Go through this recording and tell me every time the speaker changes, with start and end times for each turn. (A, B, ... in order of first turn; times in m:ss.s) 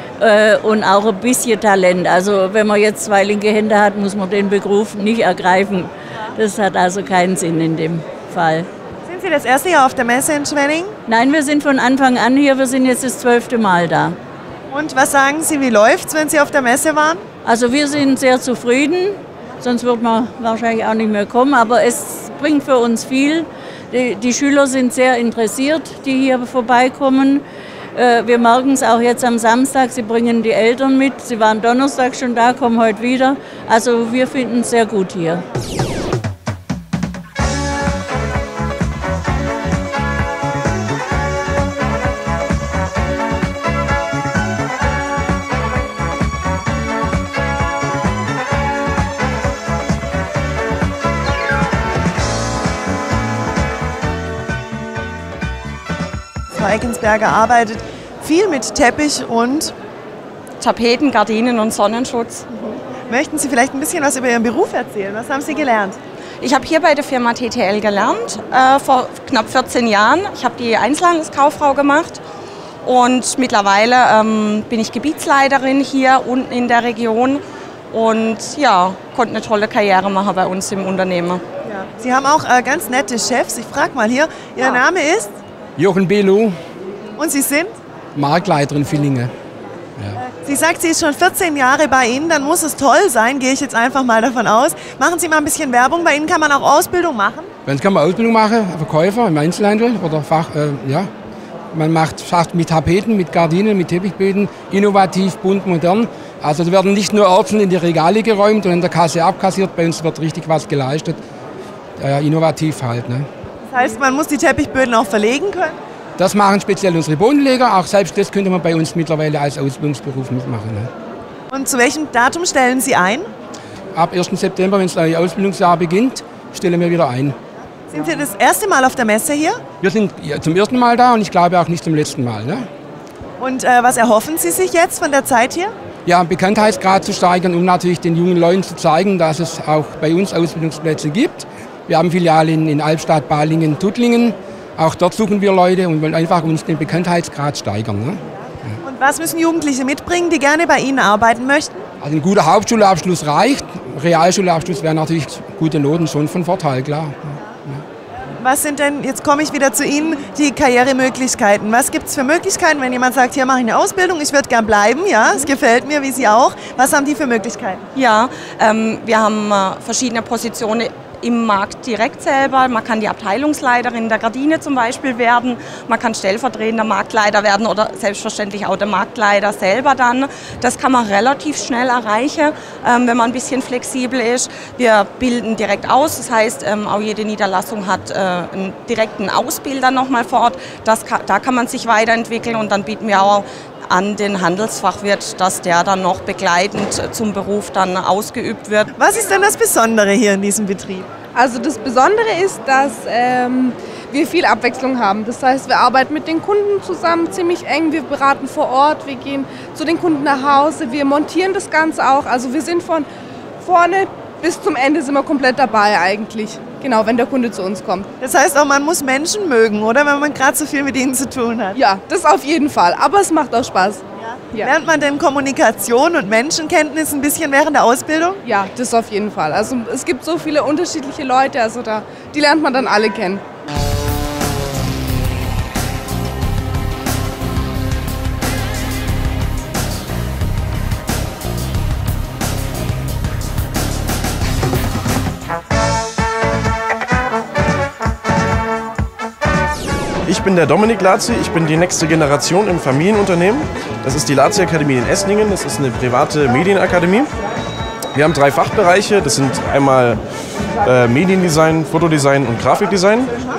0:00.2-0:08.7 A
0:09.0-0:10.9 B
0:11.1-0:14.2 A
0:14.7-0:17.2 B
0:17.4-0:27.4 A
0:27.9-0:35.4 A
0:56.6-0:59.7 B
1:00.6-1:02.4 C
1:02.5-1:06.0 B
1:06.4-1:12.2 C
1:12.8-1:21.4 C
1:21.6-1:25.3 B
1:25.8-1:26.5 D
1:27.2-1:27.7 B
1:28.1-1:29.3 D
1:30.4-1:37.5 B
1:37.6-1:41.1 D
1:41.7-1:51.2 D
1:52.0-1:53.2 D
1:53.7-1:55.8 B
1:56.2-2:00.9 D
2:01.5-2:03.3 B
2:03.9-2:07.3 D
2:07.9-2:09.6 B
2:09.8-2:12.6 D
2:13.4-2:15.7 B
2:16.0-2:28.2 D
2:28.8-2:31.8 B
2:32.0-2:37.8 D
2:38.4-2:47.8 B
2:47.9-3:18.9 C
3:19.0-3:21.1 B
3:21.3-3:33.1 E
3:33.6-3:38.1 E
3:38.2-3:41.7 B
3:41.7-3:44.7 E
3:44.3-3:48.4 B
3:48.4-3:53.4 E
4:10.3-4:17.3 F
4:18.1-4:20.2 F
4:20.8-4:23.4 F